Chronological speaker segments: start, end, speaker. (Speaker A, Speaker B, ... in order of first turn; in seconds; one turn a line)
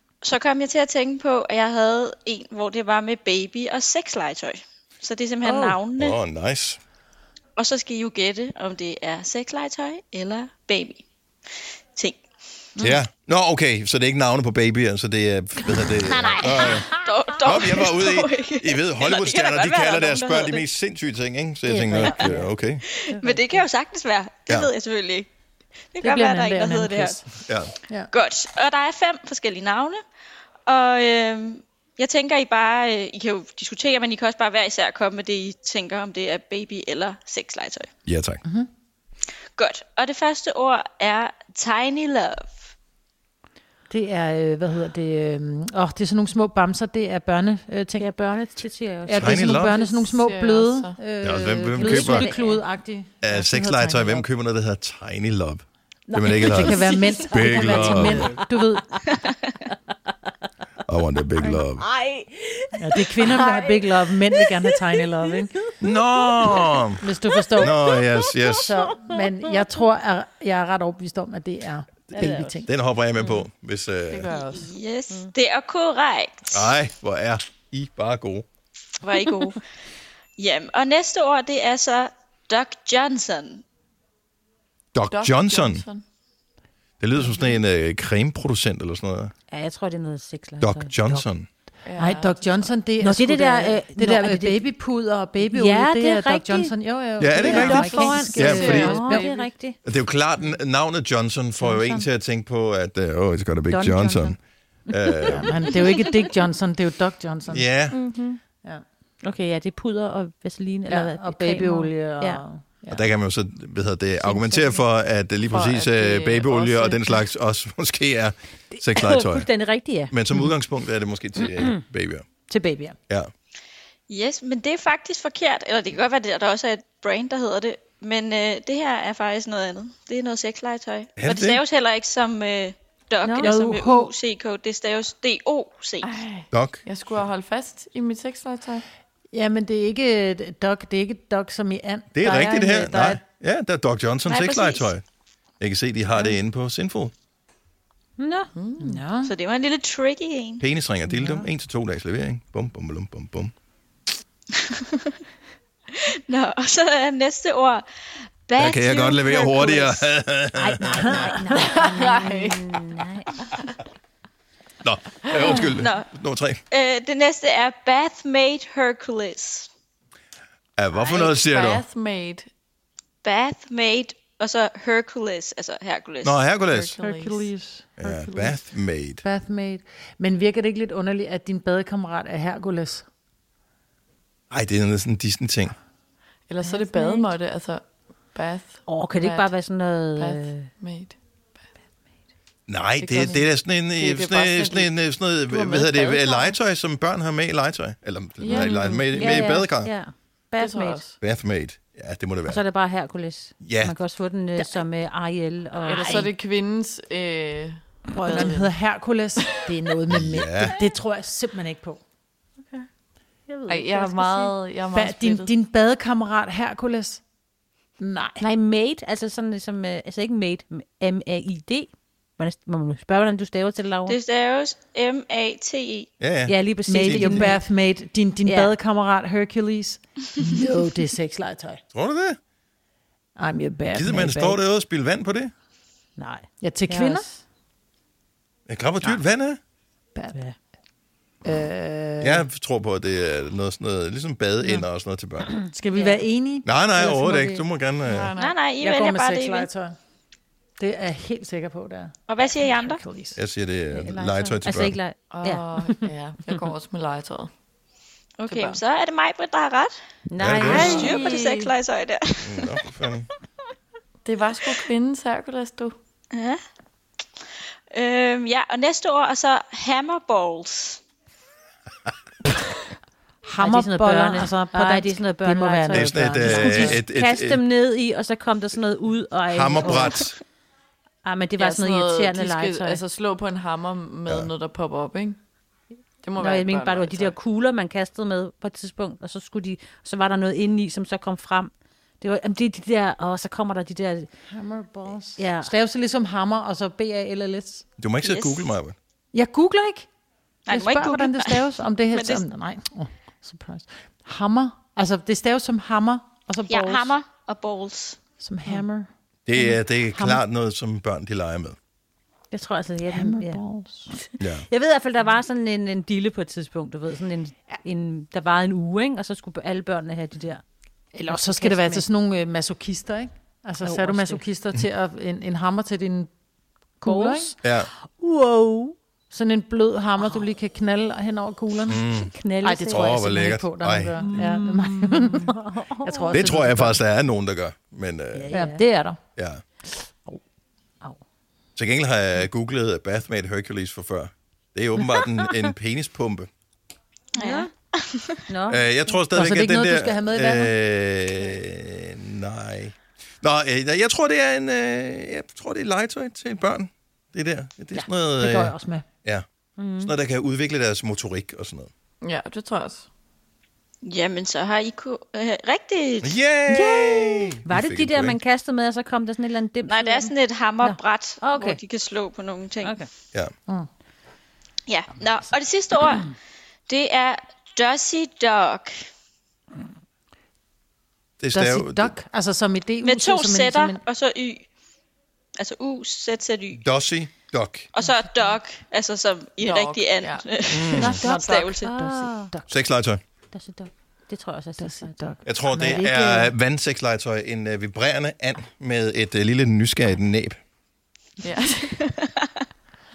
Speaker A: 0.2-6.2
Speaker B: 5.5-5.8
Speaker C: 6.0-6.8
Speaker A: 7.6-11.1
Speaker C: 12.8-22.9
Speaker D: 16.0-17.1
Speaker A: 16.9-20.6
Speaker D: 21.7-22.3
Speaker B: 22.0-22.5
Speaker A: 22.9-25.3
Speaker A: 25.9-27.2
Speaker B: 26.0-27.2
Speaker C: 27.5-27.7
Speaker A: 28.1-30.0
Speaker A: 30.7-37.9
Speaker C: 38.1-38.4
Speaker A: 39.6-42.7
Speaker B: 43.9-48.1
Speaker D: 48.0-49.7
Speaker B: 49.1-54.3
Speaker C: 49.2-49.8
Speaker E: 49.7-51.0
Speaker C: 51.2-52.3
Speaker D: 51.8-52.6
Speaker C: 53.2-58.3
Speaker D: 56.1-59.0
Speaker B: 56.4-59.1
Speaker C: 60.9-61.9
Speaker D: 61.4-65.3
Speaker B: 62.8-65.5
Speaker C: 65.8-67.0
Speaker D: 66.2-66.8
Speaker B: 67.0-67.8
Speaker D: 67.6-69.5
Speaker C: 67.6-68.8
Speaker B: 68.5-72.7
Speaker C: 72.1-74.3
Speaker D: 72.2-72.5
Speaker E: 74.1-74.7
Speaker A: 74.4-76.8
Speaker C: 76.5-78.5
Speaker A: 79.0-79.6
Speaker A: 80.4-83.6
Speaker C: 84.9-85.8
Speaker E: 85.1-86.0
Speaker C: 87.0-89.3
Speaker D: 89.5-91.2
Speaker C: 90.6-91.5
Speaker E: 91.8-92.7
Speaker B: 92.0-99.3
Speaker D: 93.0-94.7
Speaker D: 95.5-96.7
Speaker C: 97.2-99.0
Speaker D: 97.3-99.8
Speaker E: 97.4-99.5
Speaker C: 99.8-104.4
Speaker B: 101.6-102.0
Speaker D: 103.7-104.4
Speaker C: 104.9-105.7
Speaker D: 104.9-105.9
Speaker B: 105.3-107.7
Speaker C: 107.5-108.0
Speaker D: 107.9-108.4
Speaker D: 109.2-112.4
Speaker B: 110.9-113.1
Speaker C: 112.9-119.5
Speaker D: 114.2-114.8
Speaker E: 115.5-117.2
Speaker D: 118.7-120.1
Speaker C: 120.1-122.3
Speaker D: 121.4-121.8
Speaker D: 122.5-123.0
Speaker A: 124.1-136.2
Speaker C: 131.2-131.6
Speaker B: 133.4-134.1
Speaker E: 136.0-138.8
Speaker C: 136.5-136.8
Speaker B: 139.3-143.2
Speaker C: 142.1-145.0
Speaker A: 144.3-144.9
Speaker C: 145.6-147.1
Speaker D: 148.2-148.5
Speaker E: 148.6-149.0
Speaker B: 148.8-149.3
Speaker A: 149.2-150.6
Speaker C: 150.6-153.5
Speaker B: 151.1-151.5
Speaker A: 154.6-155.2
Speaker A: 155.9-157.9
Speaker A: 158.5-160.1
Speaker C: 158.6-161.2
Speaker D: 160.6-163.3
Speaker B: 160.8-161.6
Speaker E: 161.5-163.8
Speaker C: 164.8-166.6
Speaker A: 165.8-166.1
Speaker A: 166.7-169.7
Speaker C: 170.8-171.8
Speaker E: 170.9-172.5
Speaker A: 173.2-176.4
Speaker C: 176.2-177.0
Speaker E: 176.6-177.5
Speaker B: 177.0-183.1
Speaker C: 178.0-179.2
Speaker C: 184.5-185.7
Speaker E: 186.5-189.6
Speaker D: 186.7-187.2
Speaker D: 188.9-190.7
Speaker E: 190.2-191.2
Speaker C: 192.7-199.9
Speaker E: 193.0-196.5
Speaker E: 198.4-199.6
Speaker D: 198.5-201.1
Speaker E: 200.6-201.2
Speaker C: 201.2-202.6
Speaker D: 202.5-206.3
Speaker C: 203.6-204.0
Speaker E: 205.8-208.8
Speaker B: 208.1-212.0
Speaker C: 210.1-210.8
Speaker D: 213.5-214.6
Speaker E: 213.7-215.5
Speaker B: 214.9-217.2
Speaker B: 218.0-218.4
Speaker D: 218.4-224.2
Speaker A: 224.1-226.1
Speaker C: 226.2-227.5
Speaker D: 226.5-227.6
Speaker B: 226.9-231.8
Speaker D: 228.4-228.7
Speaker C: 231.9-232.4
Speaker B: 233.4-234.6
Speaker C: 233.9-235.5
Speaker D: 236.2-237.4
Speaker B: 236.6-237.3
Speaker C: 238.7-239.6
Speaker B: 241.4-242.4
Speaker C: 242.2-245.5
Speaker B: 245.7-247.6
Speaker D: 245.9-246.2
Speaker C: 246.7-248.3
Speaker E: 248.0-248.6
Speaker A: 248.4-249.7
Speaker B: 248.8-249.9
Speaker B: 250.8-253.4
Speaker A: 252.3-253.0
Speaker C: 253.4-255.0
Speaker D: 253.9-256.5
Speaker E: 255.3-257.5
Speaker A: 258.4-259.9
Speaker E: 258.5-258.8
Speaker D: 260.3-261.7
Speaker C: 260.4-261.1
Speaker A: 260.6-262.7
Speaker E: 260.7-261.2
Speaker C: 262.4-263.3
Speaker E: 264.2-266.0
Speaker A: 266.3-266.6
Speaker A: 267.9-271.0
Speaker B: 273.4-277.0
Speaker D: 273.6-280.3
Speaker C: 275.9-277.6
Speaker C: 279.5-280.4
Speaker D: 281.2-283.0
Speaker E: 281.6-285.4
Speaker E: 286.2-287.4
Speaker D: 286.4-294.3
Speaker B: 294.5-297.9
Speaker D: 295.4-295.7
Speaker C: 298.0-299.0
Speaker A: 298.2-298.7
Speaker B: 299.3-300.1
Speaker A: 300.7-302.4
Speaker B: 300.7-307.1
Speaker A: 306.7-308.2
Speaker B: 308.4-310.4
Speaker C: 309.5-311.8
Speaker D: 312.5-320.6
Speaker B: 313.1-314.1
Speaker C: 314.4-314.7
Speaker B: 321.1-326.3
Speaker D: 321.2-322.1
Speaker D: 323.8-324.4
Speaker B: 327.0-327.6
Speaker D: 327.0-327.6
Speaker C: 327.6-327.9
Speaker D: 328.1-329.0
Speaker B: 329.3-332.1
Speaker C: 331.9-332.3
Speaker D: 332.3-333.2
Speaker B: 332.6-337.0
Speaker C: 332.9-334.5
Speaker D: 334.2-336.3
Speaker C: 336.3-338.5
Speaker D: 338.3-338.8
Speaker B: 338.5-339.2
Speaker C: 339.4-339.6
Speaker C: 341.8-346.5
Speaker A: 347.4-348.4
Speaker D: 347.4-347.7
Speaker D: 348.5-348.8
Speaker C: 348.7-359.4
Speaker B: 349.3-350.7
Speaker B: 358.0-359.0
Speaker D: 359.8-360.1
Speaker C: 360.0-361.9
Speaker E: 362.2-363.1
Speaker A: 364.0-366.4
Speaker C: 366.2-368.4
Speaker D: 366.7-371.8
Speaker A: 369.9-373.0
Speaker D: 372.8-373.1
Speaker A: 374.9-376.3
Speaker A: 376.9-379.0
Speaker C: 381.4-382.1
Speaker B: 381.5-384.0
Speaker A: 383.0-384.6
Speaker A: 385.6-386.8
Speaker C: 386.8-387.9
Speaker A: 387.9-391.9
Speaker E: 389.6-390.6
Speaker B: 390.7-392.8
Speaker C: 390.7-391.2
Speaker D: 391.3-392.5
Speaker C: 392.7-393.2
Speaker D: 393.5-395.2
Speaker B: 394.8-396.5
Speaker C: 395.5-400.6
Speaker E: 401.4-402.1